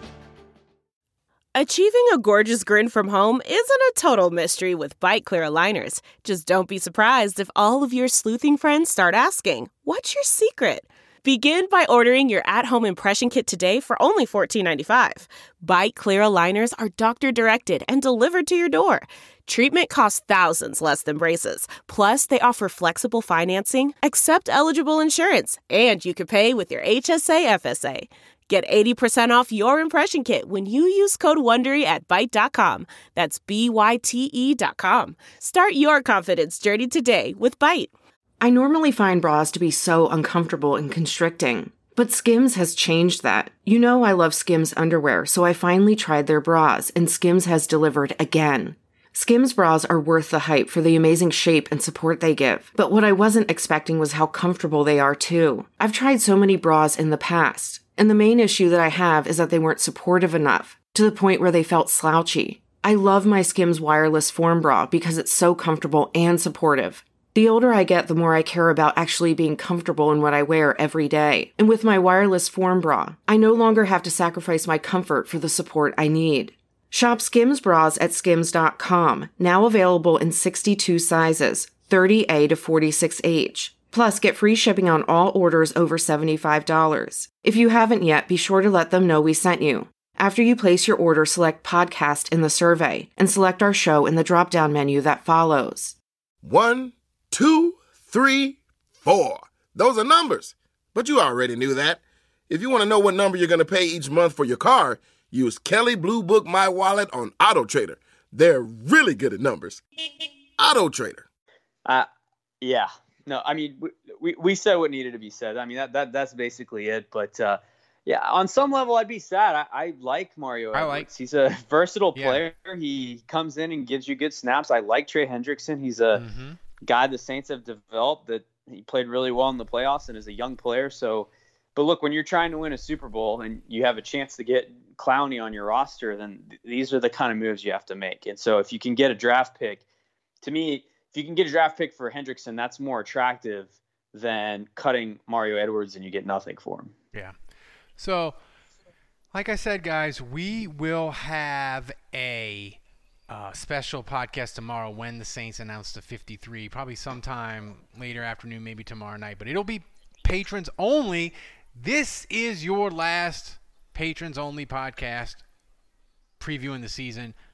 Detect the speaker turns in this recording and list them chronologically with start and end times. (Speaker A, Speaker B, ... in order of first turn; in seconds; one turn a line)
Speaker A: 1.5-37.9
Speaker B: 38.4-96.0
Speaker C: 96.4-109.8
Speaker C: 110.6-111.2
Speaker D: 112.6-126.2
Speaker E: 120.7-121.1
Speaker E: 122.1-122.4
Speaker E: 126.1-126.6
Speaker D: 126.8-139.8
Speaker D: 140.4-146.9
Speaker E: 148.0-148.4
Speaker E: 149.3-165.4
Speaker E: 166.4-167.3